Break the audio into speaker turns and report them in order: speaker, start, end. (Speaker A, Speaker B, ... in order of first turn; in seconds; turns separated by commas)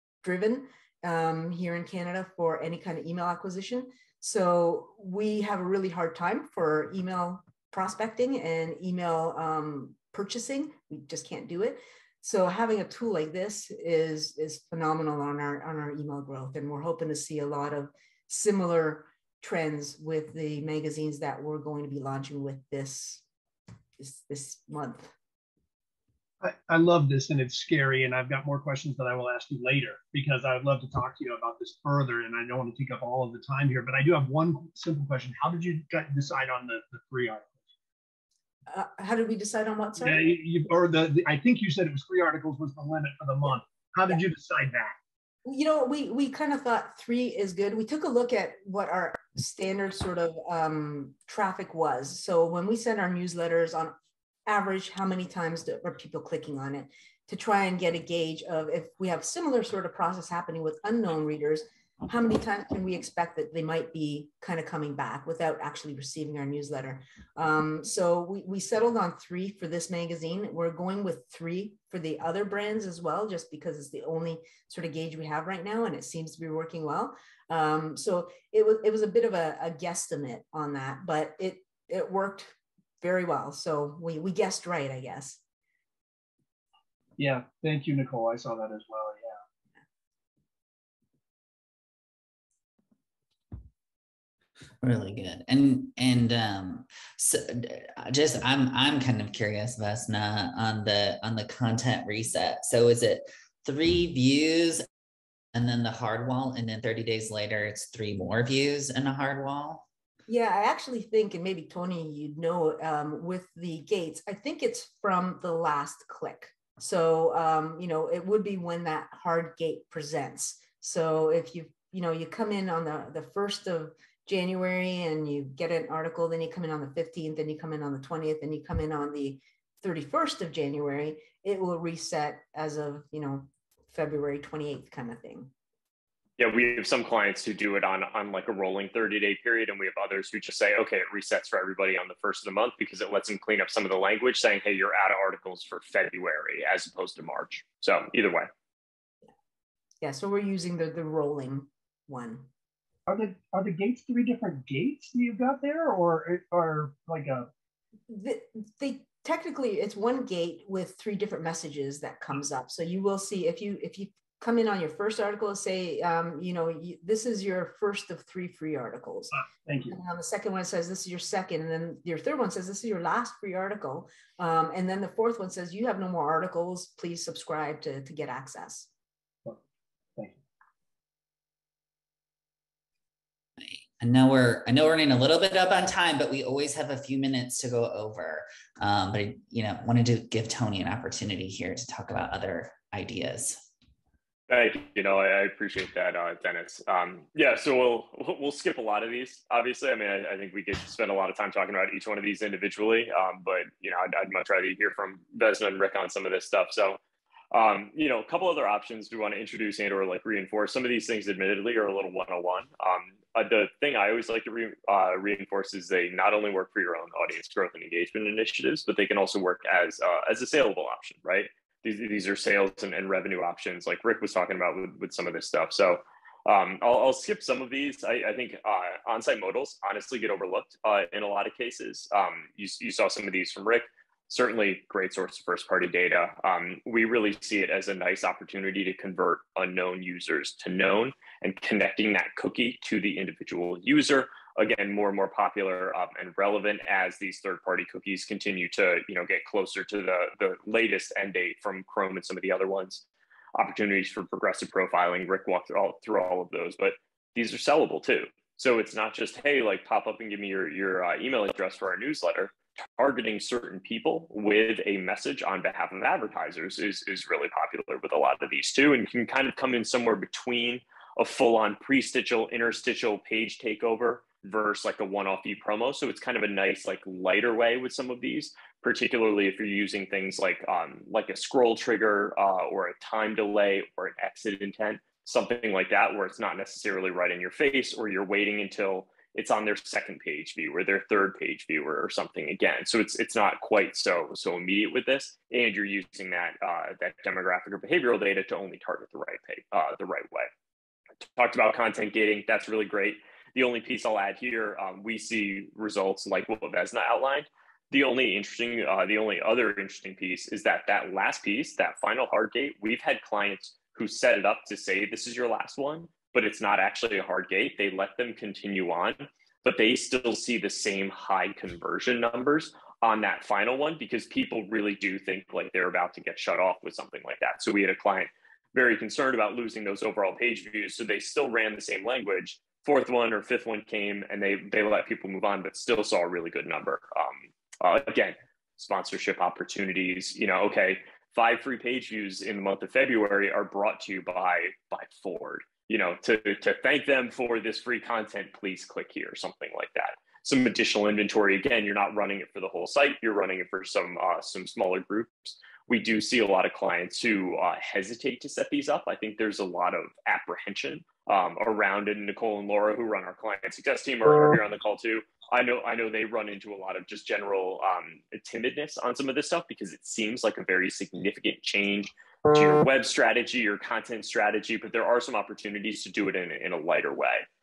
Speaker A: 0.2-23.2, Speaker A: 24.0-25.1, Speaker B: 26.4-37.5, Speaker A: 38.7-40.2, Speaker B: 40.0-45.0, Speaker A: 45.5-54.0, Speaker A: 54.5-85.4, Speaker B: 87.2-89.4, Speaker C: 94.8-104.9, Speaker C: 105.5-109.9, Speaker A: 110.3-135.5, Speaker D: 136.4-148.5, Speaker A: 150.0-152.5, Speaker B: 153.1-157.5, Speaker A: 158.1-169.4, Speaker B: 169.7-170.0, Speaker A: 169.9-178.9, Speaker C: 183.6-193.6, Speaker D: 194.5-207.0, Speaker D: 207.5-253.0, Speaker D: 253.6-300.5, Speaker D: 301.2-377.4